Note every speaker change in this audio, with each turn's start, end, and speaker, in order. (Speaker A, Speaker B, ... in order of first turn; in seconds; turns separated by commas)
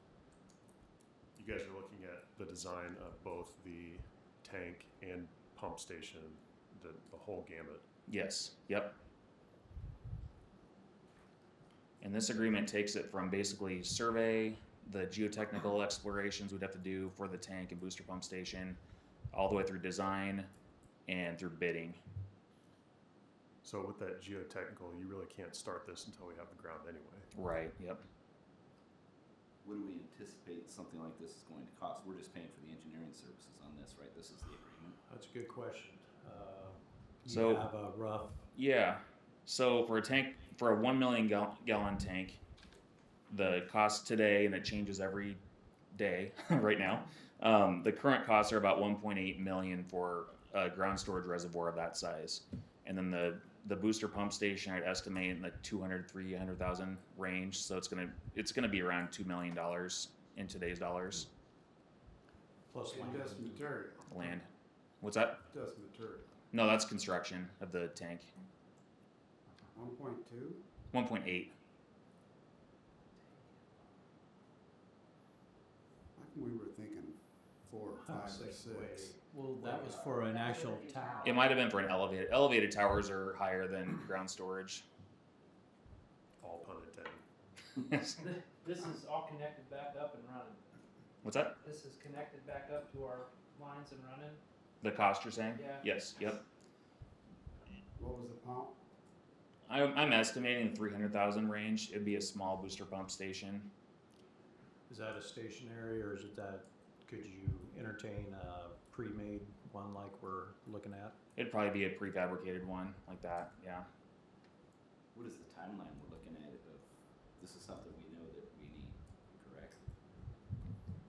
Speaker A: 1.4-7.9, Speaker B: 8.1-9.0, Speaker B: 12.0-18.8, Speaker B: 19.3-20.5, Speaker B: 21.1-22.0, Speaker A: 23.6-27.3, Speaker B: 27.3-28.0, Speaker C: 29.6-35.0, Speaker D: 35.1-38.5, Speaker B: 37.3-37.7, Speaker B: 38.5-42.4, Speaker B: 43.3-45.4, Speaker B: 45.9-61.3, Speaker D: 62.7-63.6, Speaker E: 62.9-64.2, Speaker B: 64.1-64.5, Speaker B: 65.0-65.4, Speaker E: 65.5-66.4, Speaker B: 66.5-68.3, Speaker E: 69.7-70.7, Speaker B: 70.9-71.5, Speaker E: 76.2-80.4, Speaker D: 78.0-81.4, Speaker F: 80.3-81.5, Speaker B: 81.2-84.9, Speaker A: 86.4-87.2, Speaker B: 87.9-88.2, Speaker F: 88.2-90.6, Speaker B: 91.2-91.6, Speaker F: 91.6-94.4, Speaker B: 94.8-96.4, Speaker F: 95.5-95.9, Speaker E: 98.0-98.8, Speaker B: 99.7-103.7, Speaker D: 104.9-111.2, Speaker B: 111.4-113.9, Speaker C: 115.1-119.8